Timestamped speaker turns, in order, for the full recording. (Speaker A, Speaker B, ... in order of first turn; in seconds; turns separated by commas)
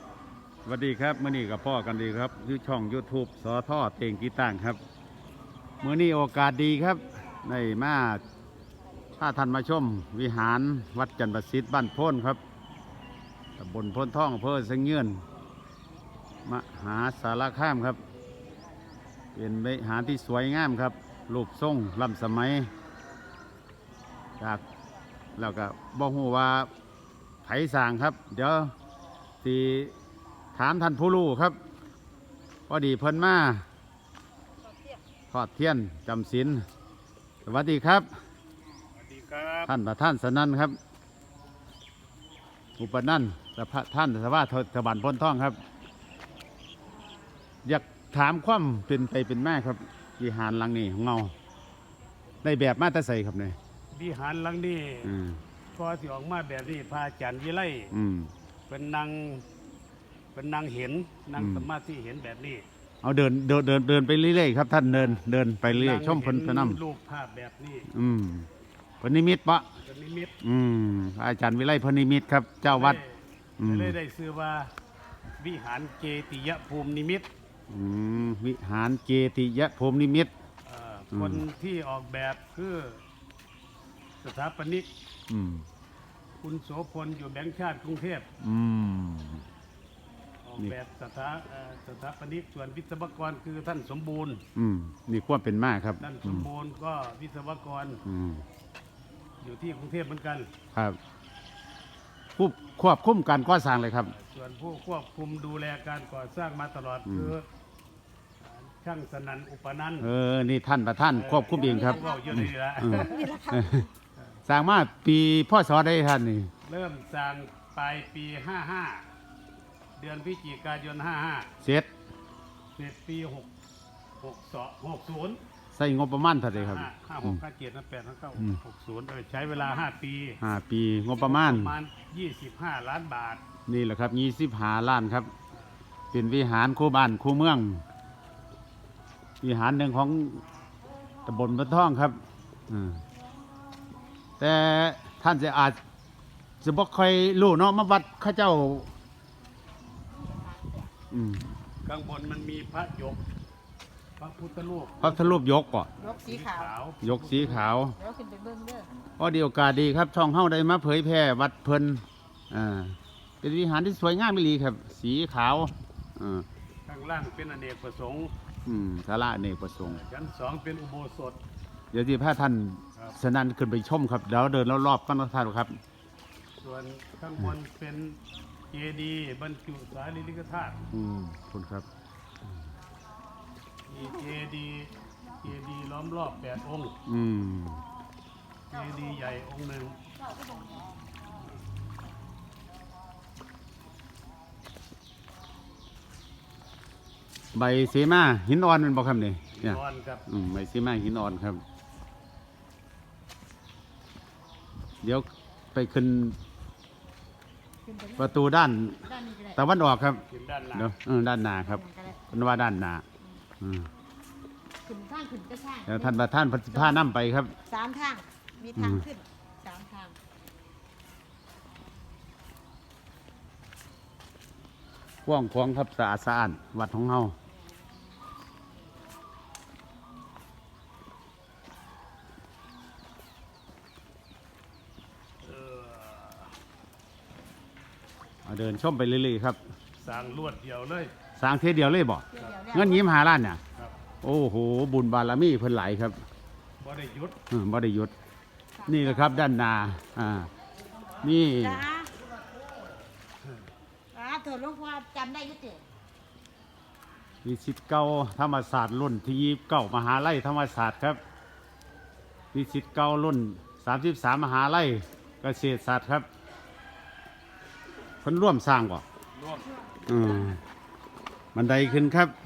Speaker A: 0.6-4.8, Speaker A: 5.8-8.2, Speaker A: 9.2-12.4, Speaker A: 13.6-15.2, Speaker A: 16.4-18.0, Speaker A: 19.3-22.7, Speaker A: 25.4-26.7, Speaker A: 27.4-28.7, Speaker A: 29.4-29.9, Speaker A: 30.5-31.6, Speaker A: 32.7-33.6, Speaker A: 35.3-36.6, Speaker A: 37.4-38.0, Speaker B: 38.9-39.7, Speaker A: 39.7-40.8, Speaker A: 42.8-45.6, Speaker A: 47.6-51.3, Speaker A: 52.4-53.6, Speaker B: 53.9-55.1, Speaker A: 55.0-55.4, Speaker B: 55.7-57.9, Speaker A: 57.9-58.3, Speaker B: 58.7-59.5, Speaker B: 60.3-62.6, Speaker A: 61.4-61.7, Speaker A: 63.0-66.8, Speaker B: 65.7-67.9, Speaker A: 67.9-68.5, Speaker A: 69.0-69.7, Speaker B: 69.8-70.3, Speaker A: 70.4-73.0, Speaker B: 72.6-74.7, Speaker A: 73.6-74.0, Speaker B: 75.4-77.3, Speaker A: 77.7-80.3, Speaker B: 80.6-83.0, Speaker A: 81.1-81.4, Speaker B: 84.2-84.9, Speaker A: 85.3-85.7, Speaker B: 86.4-88.3, Speaker A: 88.4-89.4, Speaker B: 90.4-94.4, Speaker A: 94.5-96.5, Speaker B: 96.0-98.0, Speaker A: 98.0-98.4, Speaker B: 99.4-100.5, Speaker A: 100.7-101.0, Speaker A: 102.3-104.1, Speaker B: 104.1-107.4, Speaker A: 107.1-107.3, Speaker B: 108.4-110.1, Speaker A: 110.0-113.9, Speaker B: 111.1-113.3, Speaker C: 111.5-113.8, Speaker A: 114.5-116.5, Speaker B: 116.6-119.0, Speaker B: 120.0-121.5, Speaker A: 121.6-121.9, Speaker B: 122.8-123.5, Speaker B: 124.2-125.4, Speaker A: 125.7-127.4, Speaker B: 126.5-130.4, Speaker A: 130.4-131.8, Speaker B: 131.2-133.4, Speaker A: 133.7-135.3, Speaker A: 136.1-137.8, Speaker A: 139.4-140.4, Speaker A: 141.2-142.2, Speaker A: 142.7-143.0, Speaker A: 144.4-145.8, Speaker A: 146.6-148.9, Speaker C: 150.1-150.9, Speaker A: 151.1-151.4, Speaker B: 151.8-153.2, Speaker B: 154.2-155.4, Speaker A: 155.0-155.9, Speaker C: 156.0-156.7, Speaker B: 156.0-157.7, Speaker A: 157.0-157.9, Speaker C: 157.9-158.9, Speaker A: 159.2-166.4, Speaker B: 166.8-168.3, Speaker A: 168.6-170.0, Speaker B: 169.8-171.4, Speaker A: 171.9-175.7, Speaker B: 176.6-178.2, Speaker B: 178.7-180.8, Speaker A: 180.9-181.8, Speaker B: 183.9-184.9, Speaker B: 185.4-186.9, Speaker A: 187.1-187.8, Speaker B: 188.7-190.0, Speaker C: 188.8-189.1, Speaker C: 190.2-190.9, Speaker A: 197.5-201.6, Speaker B: 199.5-200.2, Speaker A: 205.0-206.4, Speaker C: 207.8-208.3, Speaker A: 208.2-213.0, Speaker C: 209.1-209.6, Speaker B: 210.3-210.9, Speaker C: 211.6-212.2, Speaker A: 213.6-213.9, Speaker C: 214.8-216.2, Speaker A: 215.8-217.6, Speaker C: 216.7-217.0, Speaker C: 217.7-220.2, Speaker A: 218.7-219.1, Speaker A: 225.2-227.3, Speaker B: 235.4-236.5, Speaker A: 238.4-239.6, Speaker B: 240.0-241.1, Speaker A: 241.4-243.6, Speaker C: 242.3-243.1, Speaker A: 244.2-246.2, Speaker B: 246.8-247.4, Speaker A: 247.5-248.1, Speaker C: 248.8-249.3, Speaker A: 248.9-250.5, Speaker A: 251.2-251.9, Speaker C: 251.6-252.4, Speaker C: 254.1-255.8, Speaker A: 257.4-261.2, Speaker A: 262.5-266.3, Speaker A: 268.2-269.0, Speaker B: 269.4-269.7, Speaker C: 269.9-270.5, Speaker A: 270.1-270.6, Speaker A: 271.5-272.3